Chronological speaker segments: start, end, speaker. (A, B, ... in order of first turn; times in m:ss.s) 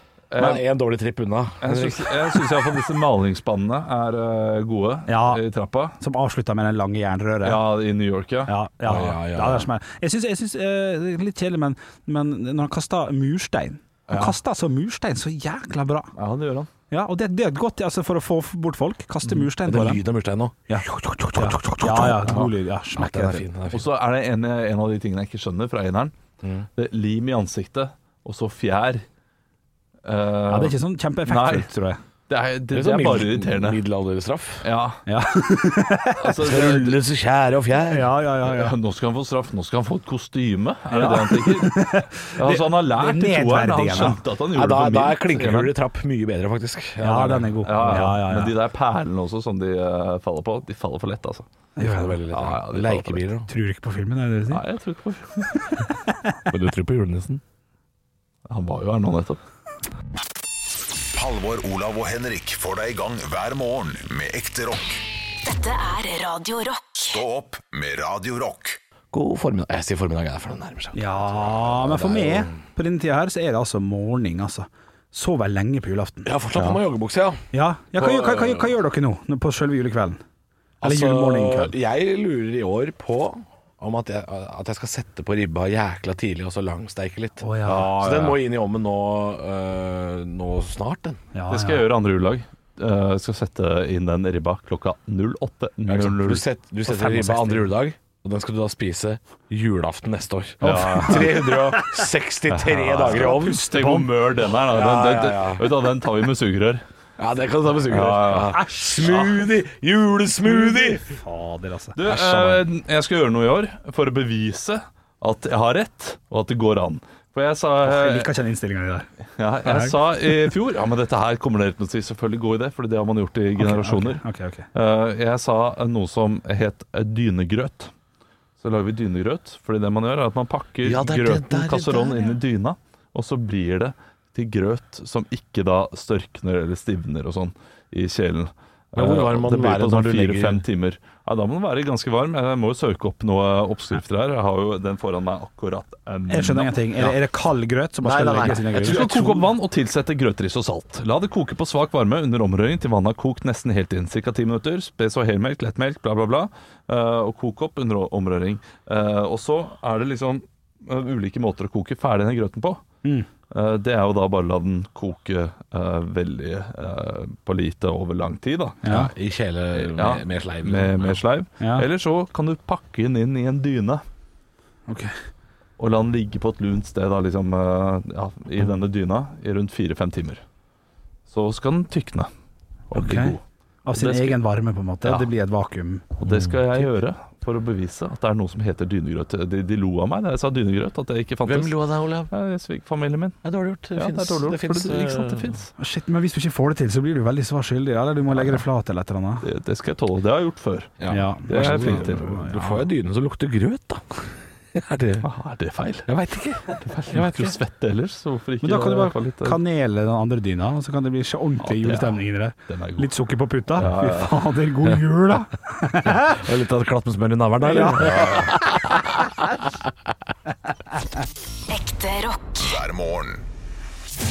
0:00.3-0:00.6 A
0:00.4-0:02.4 B
0:01.6-0:06.0 A
0:05.1-0:05.4 C
0:06.0-0:07.6 C
0:07.4-0:08.5 A
0:08.5-0:16.1 C
0:08.8-0:09.7 B
0:14.1-0:14.4 A
0:16.2-0:16.7 A
0:16.9-0:20.0 C
0:19.5-0:23.9 B
0:20.7-0:23.4 C
0:23.7-0:26.1 A
0:26.4-0:26.7 B
0:26.8-0:29.0 A
0:30.0-0:31.7 A
0:30.5-0:32.0 C
0:32.3-0:33.8 A
0:32.7-0:34.6 B
0:34.6-0:35.0 A
0:35.0-0:36.3 C
0:36.2-0:37.0 A
0:36.4-0:38.1 B
0:37.9-0:38.7 C
0:38.4-0:41.8 A
0:40.9-0:44.2 C
0:42.4-0:45.7 A
0:44.5-0:48.1 B
0:47.0-0:48.5 C
0:47.6-0:51.4 A
0:51.8-0:52.2 C
0:51.8-0:53.5 B
0:52.3-0:53.3 A
0:53.5-0:54.6 C
0:54.5-0:55.8 A
0:56.5-0:57.4 B
0:58.5-0:59.4 A
1:01.1-1:05.0 D
1:05.4-1:07.2 E
1:06.9-1:08.8 D
1:09.1-1:12.6 B
1:10.9-1:16.3 C
1:16.2-1:17.4 B
1:17.5-1:20.2 C
1:17.9-1:18.7 B
1:20.8-1:31.2 B
1:20.8-1:21.7 C
1:27.4-1:27.9 C
1:27.6-1:28.4 A
1:31.3-1:31.9 C
1:31.5-1:36.4 A
1:35.8-1:43.7 B
1:36.8-1:37.7 C
1:40.6-1:42.0 C
1:40.6-1:41.4 A
1:42.5-1:46.8 A
1:43.0-1:44.1 C
1:44.6-1:45.7 B
1:47.2-1:51.0 B
1:47.9-1:49.3 A
1:48.5-1:49.3 C
1:50.4-1:52.0 C
1:52.0-1:58.3 A
1:52.0-1:52.6 B
1:57.8-1:59.1 C
1:59.4-2:04.2 A
1:59.6-2:00.0 C
2:03.6-2:04.6 C
2:04.7-2:07.9 A
2:08.6-2:26.8 A
2:10.8-2:12.3 B
2:18.9-2:20.6 B
2:26.3-2:29.3 C
2:28.0-2:29.5 B
2:28.5-2:42.8 A
2:43.5-2:48.8 A
2:48.8-2:49.1 C
2:48.8-2:51.2 B
2:49.8-2:54.0 A
2:51.6-2:51.8 C
2:55.8-3:00.4 A
3:01.3-3:02.3 A
3:02.9-3:03.4 A
3:02.9-3:06.9 C
3:03.9-3:04.4 A
3:05.0-3:05.3 A
3:06.2-3:13.4 A
3:11.4-3:12.3 B
3:13.4-3:15.5 B
3:13.9-3:15.7 A
3:15.8-3:19.4 C
3:19.4-3:22.6 A
3:21.0-3:24.0 B
3:21.1-3:22.7 C
3:24.7-3:25.3 B
3:25.2-3:26.1 A
3:26.0-3:27.6 B
3:26.8-3:29.6 A
3:28.6-3:36.4 C
3:31.6-3:33.1 A
3:33.7-3:34.4 A
3:36.1-3:39.7 B
3:37.6-3:38.3 C
3:37.8-3:38.5 A
3:41.7-3:42.8 E
3:42.6-3:43.4 D